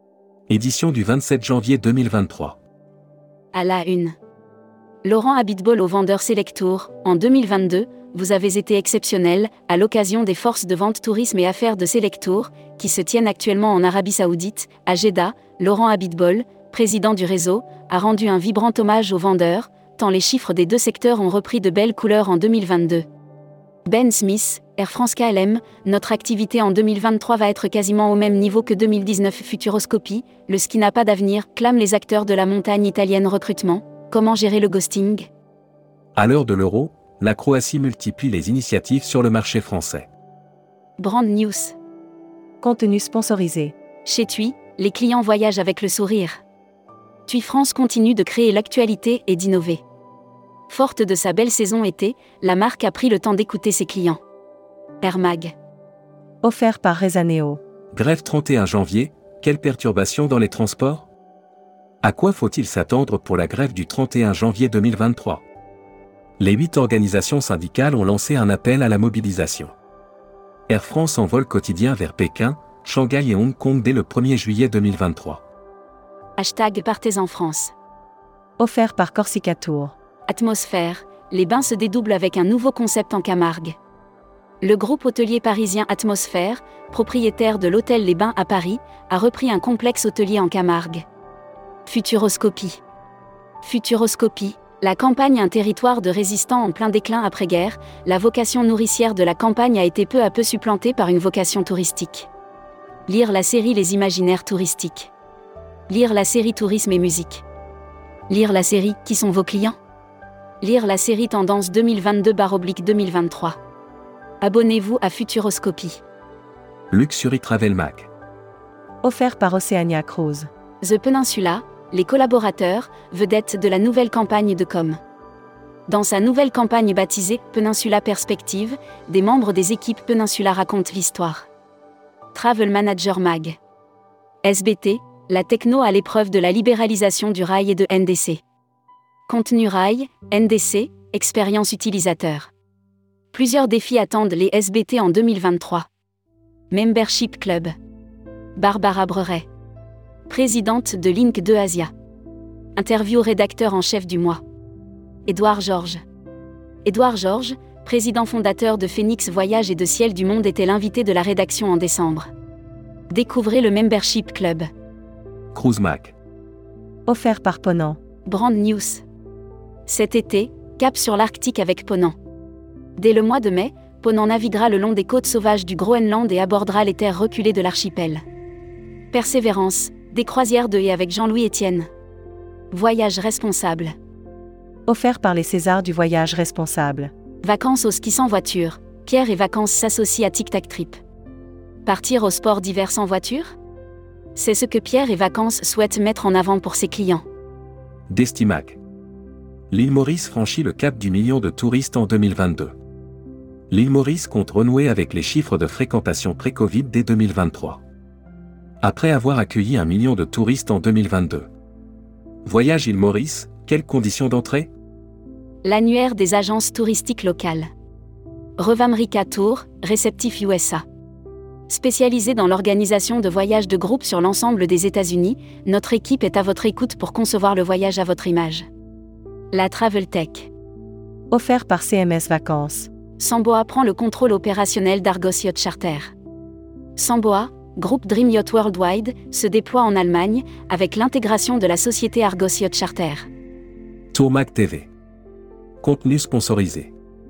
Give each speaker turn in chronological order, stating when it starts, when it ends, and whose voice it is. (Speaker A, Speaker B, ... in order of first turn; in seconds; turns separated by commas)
Speaker A: 0.5-2.6, Speaker B: 3.5-4.1, Speaker B: 5.0-23.1, Speaker B: 23.9-35.3, Speaker A: 36.1-40.1, Speaker B: 41.0-41.8, Speaker C: 42.6-43.7, Speaker B: 44.0-46.4, Speaker B: 47.3-49.8, Speaker B: 50.7-54.2, Speaker B: 55.0-55.5, Speaker C: 56.4-57.6, Speaker A: 57.9-61.1, Speaker A: 62.0-65.4, Speaker A: 66.4-69.7, Speaker A: 70.7-75.4, Speaker B: 76.4-77.7, Speaker C: 78.6-79.9, Speaker B: 80.3-83.8, Speaker B: 84.6-91.0, Speaker B: 91.9-92.8, Speaker B: 93.6-102.3, Speaker B: 103.1-105.1, Speaker B: 105.9-107.4, Speaker B: 108.3-109.8, Speaker B: 110.6-113.6, Speaker B: 114.4-116.0, Speaker A: 116.9-118.1, Speaker C: 119.0-120.5, Speaker B: 120.8-125.0, Speaker B: 125.9-131.5, Speaker B: 132.3-133.6, Speaker B: 134.4-138.4, Speaker B: 139.3-142.5, Speaker B: 143.3-145.9, Speaker B: 146.7-147.7, Speaker B: 148.6-149.5, Speaker B: 150.3-151.9, Speaker B: 152.8-154.4, Speaker B: 155.3-156.0, Speaker B: 156.8-162.3, Speaker B: 163.1-164.7, Speaker A: 165.5-166.1, Speaker C: 167.1-168.0, Speaker B: 168.2-169.0, Speaker B: 169.9-172.1, Speaker B: 173.0-178.2, Speaker B: 179.1-181.9, Speaker B: 182.7-183.9, Speaker C: 184.9-187.1, Speaker B: 187.4-191.0, Speaker B: 191.8-193.6, Speaker B: 194.3-197.2, Speaker A: 198.1-198.8, Speaker A: 199.7-202.8, Speaker A: 203.7-207.8, Speaker A: 208.8-211.5, Speaker A: 212.4-214.7, Speaker B: 215.6-217.7, Speaker B: 218.6-220.8, Speaker B: 221.7-228.7, Speaker B: 229.5-230.5, Speaker C: 231.3-232.9, Speaker B: 233.2-236.1, Speaker B: 237.0-243.3, Speaker A: 244.1-244.9, Speaker A: 245.8-246.9